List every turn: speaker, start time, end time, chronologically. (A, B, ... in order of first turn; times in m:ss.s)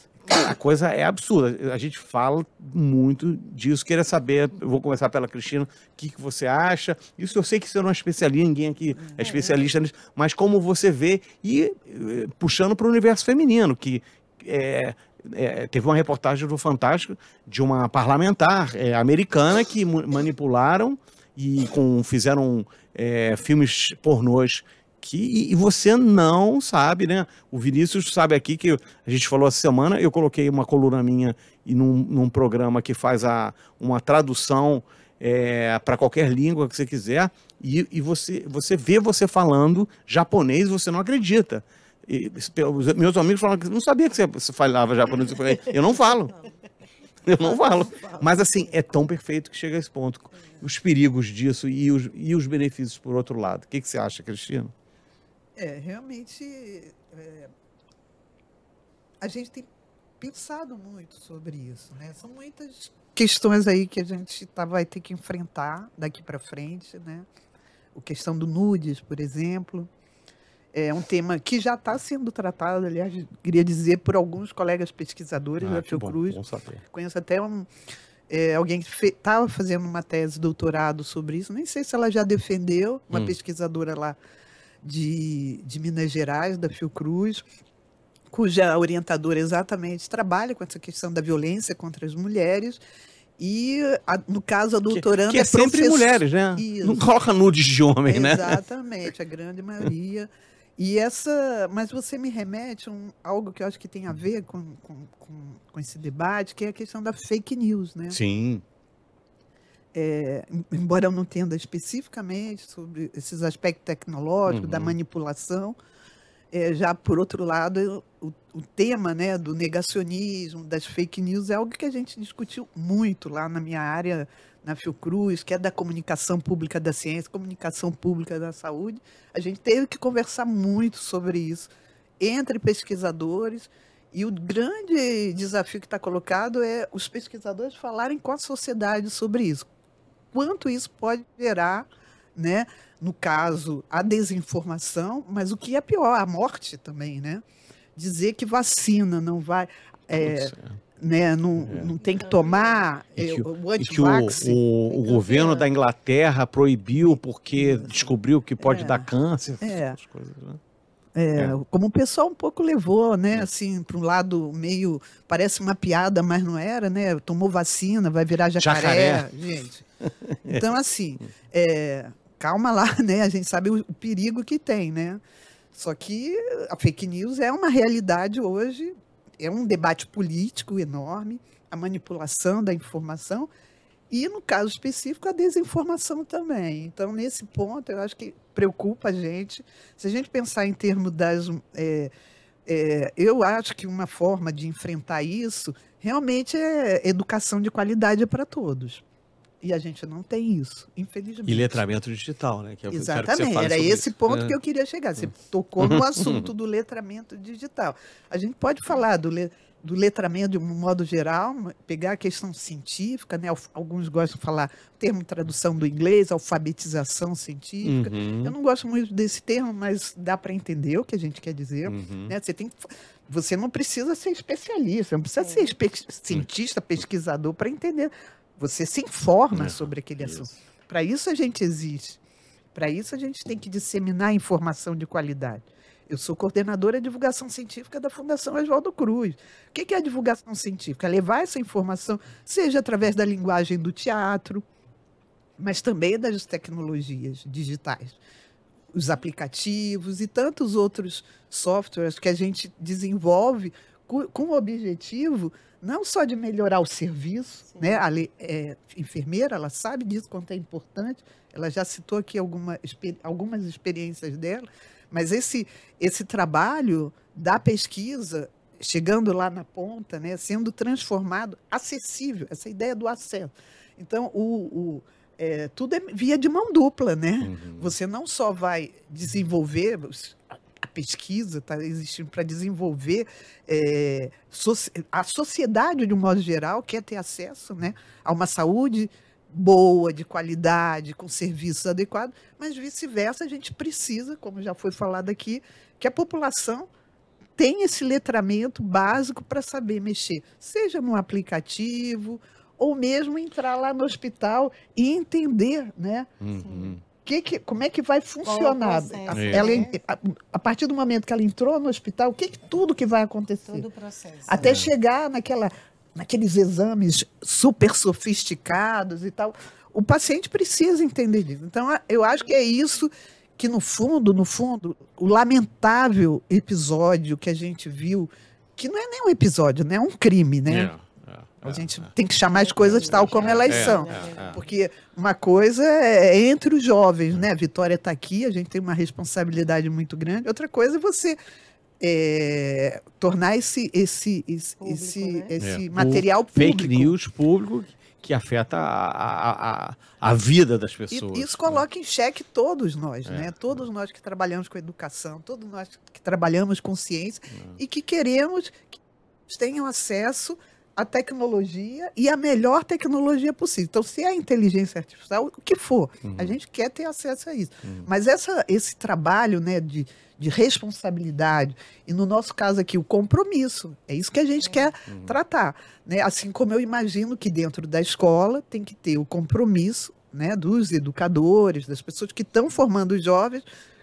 0:00.2-0:46.4 A
0:47.2-0:54.7 A
0:55.6-0:57.5 B
0:59.2-0:59.7 B
1:00.2-1:07.3 B
1:07.9-1:09.9 B
1:10.7-1:17.7 B
1:15.6-1:16.8 A
1:18.3-1:24.2 B
1:24.8-1:27.4 B
1:28.3-1:32.8 B
1:33.4-1:37.0 B
1:34.9-1:38.6 A
1:38.1-1:48.2 B
1:48.1-1:48.6 A
1:49.9-1:55.8 B
1:54.5-1:55.0 A
1:56.5-2:11.7 B
2:12.2-2:19.7 B
2:20.3-2:27.4 B
2:28.0-2:34.6 B
2:30.1-2:30.8 A
2:31.6-2:31.9 A
2:32.2-2:32.6 C
2:33.2-2:40.6 A
2:34.9-2:35.7 C
2:37.1-2:39.1 B
2:39.6-2:40.0 B
2:41.2-2:49.8 B
2:48.6-2:49.3 A
2:50.0-2:50.6 A
2:50.5-2:55.2 B
2:55.7-3:03.5 B
3:04.1-3:12.1 B
3:12.6-3:19.0 B
3:19.6-3:21.8 B
3:21.5-3:24.5 A
3:22.9-3:52.2 B
3:25.8-3:26.5 A
3:37.8-3:38.5 A
3:41.8-3:42.3 A
3:45.4-3:45.7 C
3:49.5-3:50.5 A
3:52.8-4:04.6 B
4:05.6-4:08.2 B
4:08.9-4:56.9 B
4:17.7-4:18.0 C
4:37.4-4:37.9 A
4:57.6-5:06.3 B
5:06.4-5:07.0 A
5:06.6-5:06.9 C
5:07.1-5:13.8 B
5:08.4-5:09.9 C
5:09.3-5:09.8 A
5:13.7-5:14.8 C
5:14.5-5:30.9 B
5:14.6-5:14.9 A
5:30.7-5:32.1 A
5:31.6-5:41.4 B
5:32.5-5:34.6 C
5:32.8-5:34.6 A
5:42.0-5:47.1 B
5:44.8-5:45.6 C
5:45.6-5:51.8 A
5:51.1-6:23.6 B
5:53.2-5:53.8 A
5:57.5-5:57.8 A
6:06.2-6:06.6 A
6:15.1-6:15.4 A